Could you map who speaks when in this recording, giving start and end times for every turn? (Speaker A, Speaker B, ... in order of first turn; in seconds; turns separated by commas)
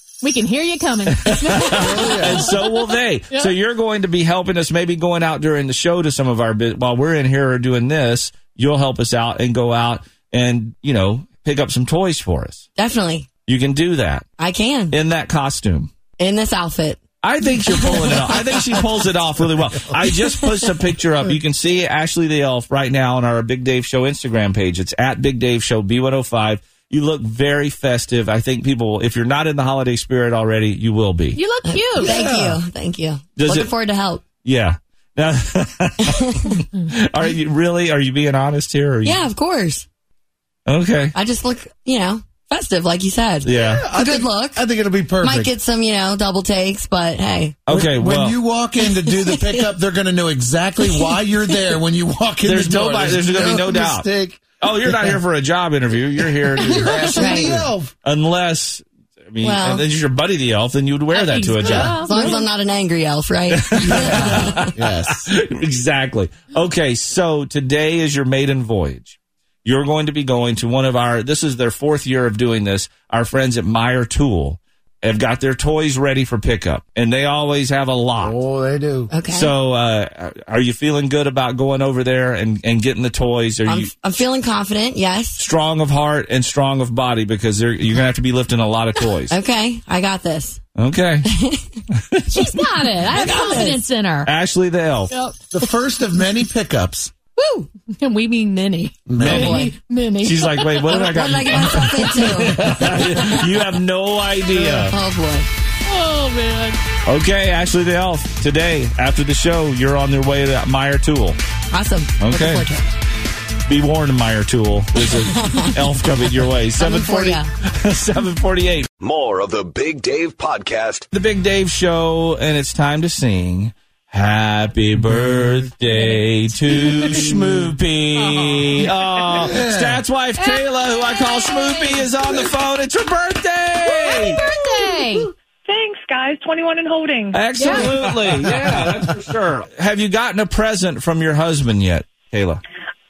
Speaker A: 0.2-2.5, Speaker B: 1.1-12.7, Speaker C: 1.7-2.5, Speaker D: 12.8-13.3, Speaker B: 13.5-14.3, Speaker D: 14.4-15.0, Speaker B: 14.9-15.9, Speaker D: 16.2-17.0, Speaker B: 17.2-31.4, Speaker D: 17.6-18.4, Speaker A: 31.3-32.1, Speaker D: 31.6-34.2, Speaker C: 32.0-32.6, Speaker B: 33.4-33.7, Speaker B: 34.4-39.2, Speaker D: 39.0-39.9, Speaker B: 40.7-41.2, Speaker D: 41.1-44.6, Speaker B: 43.4-43.9, Speaker C: 43.5-45.5, Speaker D: 45.2-47.6, Speaker B: 47.7-48.4, Speaker C: 47.7-55.2, Speaker D: 49.2-49.5, Speaker B: 52.4-54.1, Speaker B: 54.6-62.2, Speaker C: 56.3-57.9, Speaker D: 57.2-57.7, Speaker D: 59.4-59.8, Speaker A: 61.1-62.4, Speaker D: 61.7-64.1, Speaker B: 63.5-78.4, Speaker C: 63.8-65.3, Speaker C: 78.2-79.1, Speaker D: 79.1-79.5, Speaker B: 79.3-83.9, Speaker D: 83.7-85.4, Speaker B: 85.4-89.3, Speaker D: 89.3-90.6, Speaker B: 90.8-91.3, Speaker D: 91.3-91.8, Speaker B: 92.0-92.6, Speaker A: 92.3-94.3, Speaker D: 93.1-93.8, Speaker B: 94.2-95.1, Speaker A: 95.1-95.4, Speaker C: 95.5-97.2, Speaker A: 97.4-100.9, Speaker C: 99.1-99.7, Speaker B: 99.2-99.7, Speaker D: 99.4-99.7, Speaker B: 100.2-105.0, Speaker D: 100.9-103.2, Speaker A: 102.0-102.6, Speaker D: 104.9-105.5, Speaker A: 105.9-106.8, Speaker B: 107.1-111.4, Speaker D: 111.7-112.8, Speaker B: 112.2-112.7, Speaker B: 113.7-118.9, Speaker D: 116.8-117.5, Speaker E: 119.0-121.1, Speaker B: 121.1-134.4, Speaker A: 125.9-127.2, Speaker C: 126.7-127.7, Speaker C: 129.3-130.0, Speaker A: 130.4-132.1, Speaker A: 133.8-135.3, Speaker F: 135.7-137.8, Speaker B: 137.3-142.6, Speaker A: 137.5-137.9, Speaker C: 137.8-139.0